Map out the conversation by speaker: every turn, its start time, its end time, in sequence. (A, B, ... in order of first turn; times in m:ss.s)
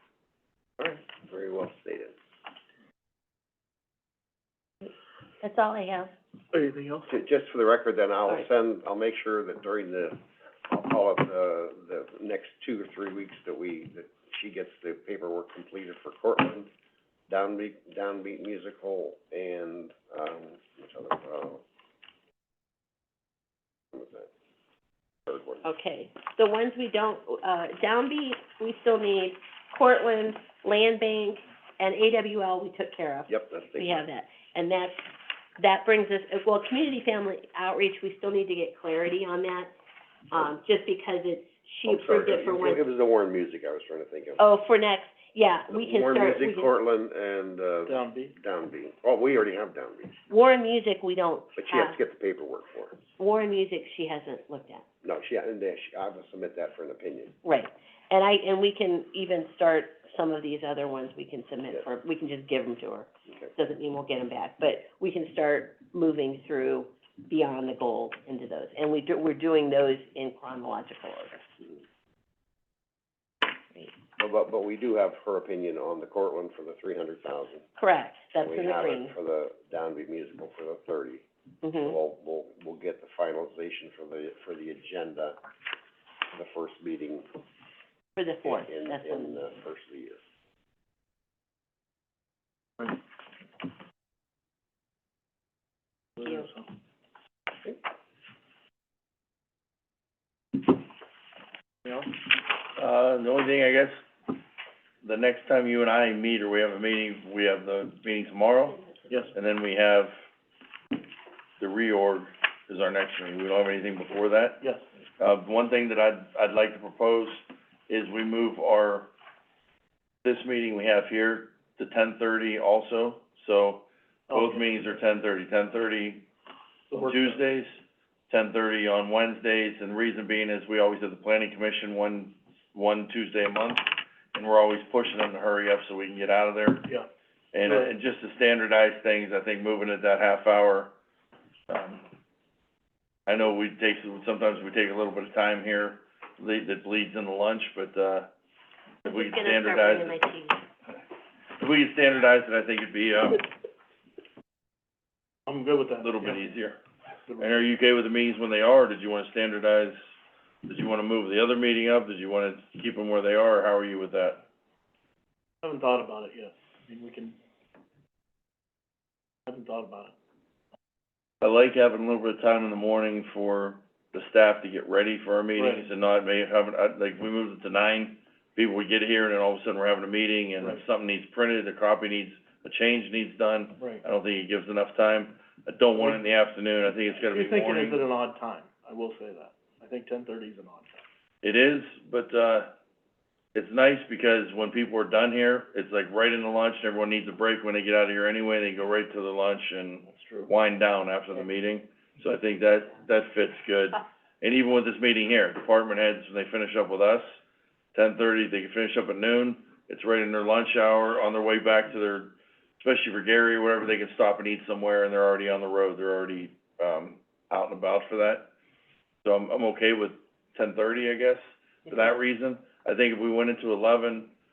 0:00.8-0:02.1 A
0:05.4-0:06.1 B
0:06.5-0:07.1 C
0:07.1-0:16.7 A
0:17.3-0:21.6 A
0:23.9-0:24.3 A
0:25.3-0:25.7 A
0:25.6-0:39.7 B
0:33.3-0:34.0 A
0:40.3-0:42.9 B
0:41.9-0:44.4 A
0:44.4-0:46.7 B
0:45.7-0:50.1 A
0:47.9-0:48.3 C
0:50.3-0:52.0 B
0:51.6-0:53.0 A
0:53.2-0:54.8 B
0:55.0-0:57.4 A
0:57.4-1:11.5 B
1:14.2-1:17.7 A
1:17.8-1:19.1 B
1:18.4-1:21.2 A
1:21.6-1:22.0 B
1:21.8-1:25.4 A
1:26.3-1:27.3 A
1:28.2-1:29.4 B
1:28.4-1:30.2 A
1:36.2-1:36.7 C
1:42.7-1:44.0 D
1:45.0-1:50.1 D
1:49.1-1:49.4 C
1:51.6-1:54.6 D
1:55.2-1:59.1 D
2:00.2-2:06.3 D
2:04.3-2:04.9 C
2:06.9-2:07.4 C
2:06.9-2:07.8 D
2:08.3-2:16.9 D
2:17.5-2:20.9 D
2:17.6-2:17.9 C
2:21.7-2:22.0 D
2:23.3-2:28.3 D
2:29.0-2:30.2 D
2:29.0-2:30.6 B
2:31.6-2:33.5 D
2:35.5-2:36.4 C
2:36.0-2:36.8 D
2:37.3-2:37.6 C
2:37.4-2:40.0 D
2:40.7-2:44.4 D
2:45.6-2:47.4 C
2:49.5-2:50.1 C
2:51.4-3:08.1 D
2:55.6-2:55.9 C
3:07.3-3:11.0 C
3:11.4-3:12.7 D
3:13.6-3:27.2 D
3:20.1-3:20.5 C
3:28.0-3:38.5 D
3:39.2-3:44.3 D